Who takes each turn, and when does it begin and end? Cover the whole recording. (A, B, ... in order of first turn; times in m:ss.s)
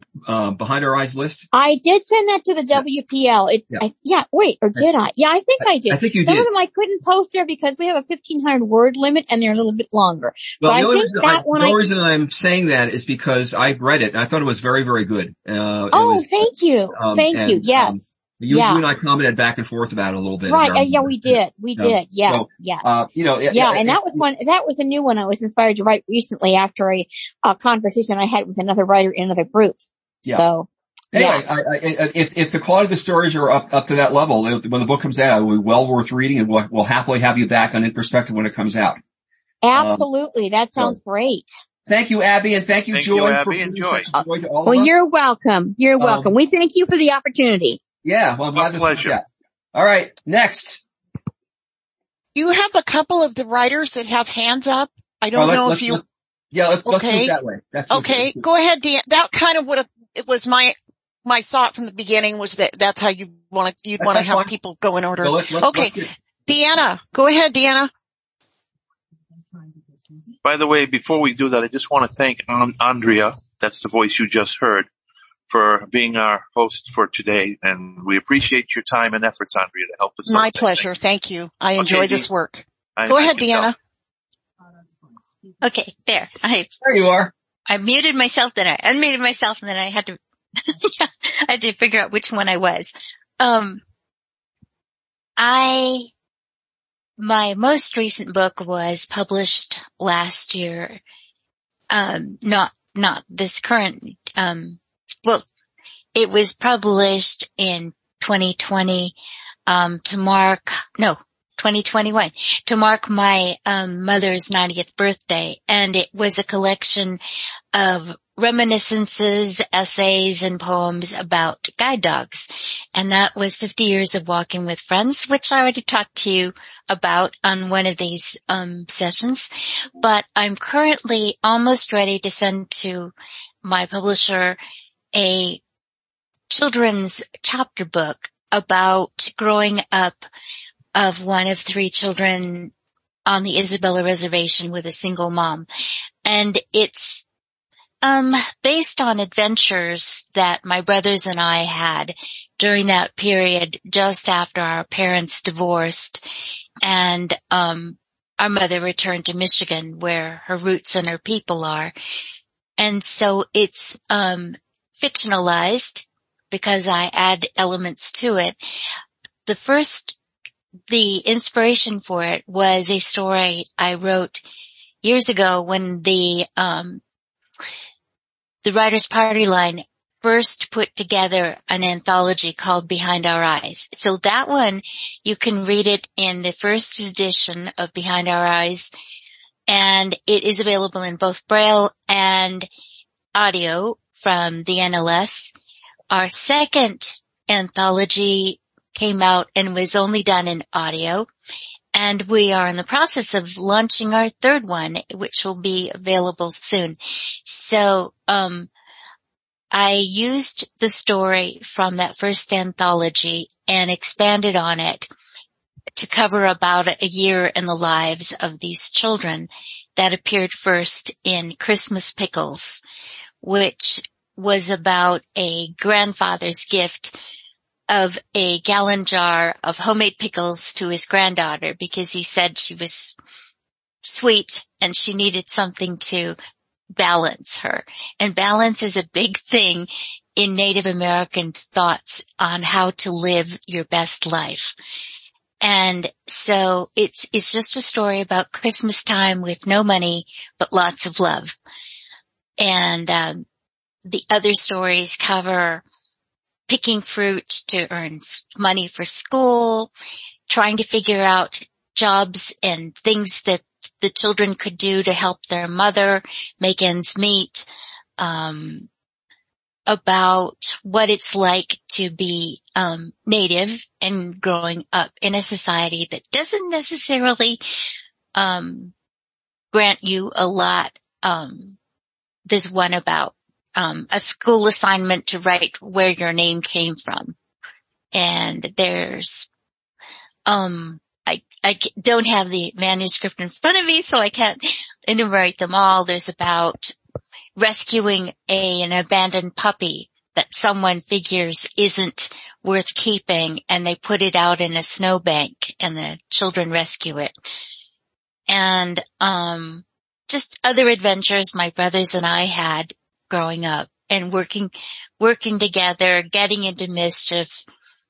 0:00.3-0:01.5 A
0:01.5-0:11.8 B
0:05.6-0:06.5 A
0:10.6-0:24.2 A
0:15.9-0:18.8 B
0:20.5-0:22.9 B
0:23.5-0:31.4 B
0:31.1-0:39.0 A
0:39.6-0:41.5 B
0:39.7-0:40.0 A
0:41.9-0:44.9 A
0:42.9-0:44.1 C
0:44.1-0:47.8 B
0:46.0-0:46.3 A
0:48.0-0:50.8 A
0:48.6-0:49.2 C
0:52.4-0:56.0 D
0:55.3-0:58.4 A
0:56.9-0:57.4 D
0:57.9-1:07.9 D
1:04.0-1:04.5 A
1:05.2-1:06.1 A
1:10.4-1:14.9 C
1:15.5-1:20.9 C
1:20.2-1:23.8 D
1:21.8-1:22.3 C
1:23.0-1:23.7 C
1:25.6-1:26.7 E
1:26.8-1:27.3 A
1:27.7-1:30.2 E
1:30.7-1:33.8 E
1:35.4-1:36.1 E
1:37.2-1:41.0 E
1:41.9-1:45.4 E
1:46.2-1:49.2 E
1:49.7-1:57.2 E
1:57.7-2:13.1 E
2:13.6-2:14.6 E
2:15.2-2:15.6 E
2:16.5-2:20.2 E
2:21.0-2:22.7 E
2:23.3-2:25.7 E
2:26.2-2:27.2 E
2:28.0-2:36.3 E
2:36.8-2:41.9 E
2:42.8-2:48.6 E
2:49.5-2:50.2 E
2:50.9-2:54.4 E
2:55.0-2:57.0 E
2:58.6-3:08.9 E
3:09.7-3:12.7 E
3:13.4-3:15.5 E
3:16.1-3:21.3 E
3:21.9-3:28.7 E
3:29.7-3:35.1 E
3:36.0-3:42.8 E
3:43.4-3:47.2 E
3:47.9-3:53.2 E
3:54.0-3:56.4 E
3:57.0-4:04.7 E
4:05.6-4:11.6 E
4:12.6-4:13.4 E
4:14.0-4:15.8 E
4:16.7-4:19.9 E
4:20.5-4:27.7 E
4:28.2-4:28.9 E
4:29.9-4:37.6 E
4:38.4-4:38.9 E
4:39.7-4:41.8 E
4:42.5-4:47.4 E
4:48.1-4:49.5 E
4:50.5-4:56.9 E
4:57.6-5:07.3 E
5:08.5-5:17.6 E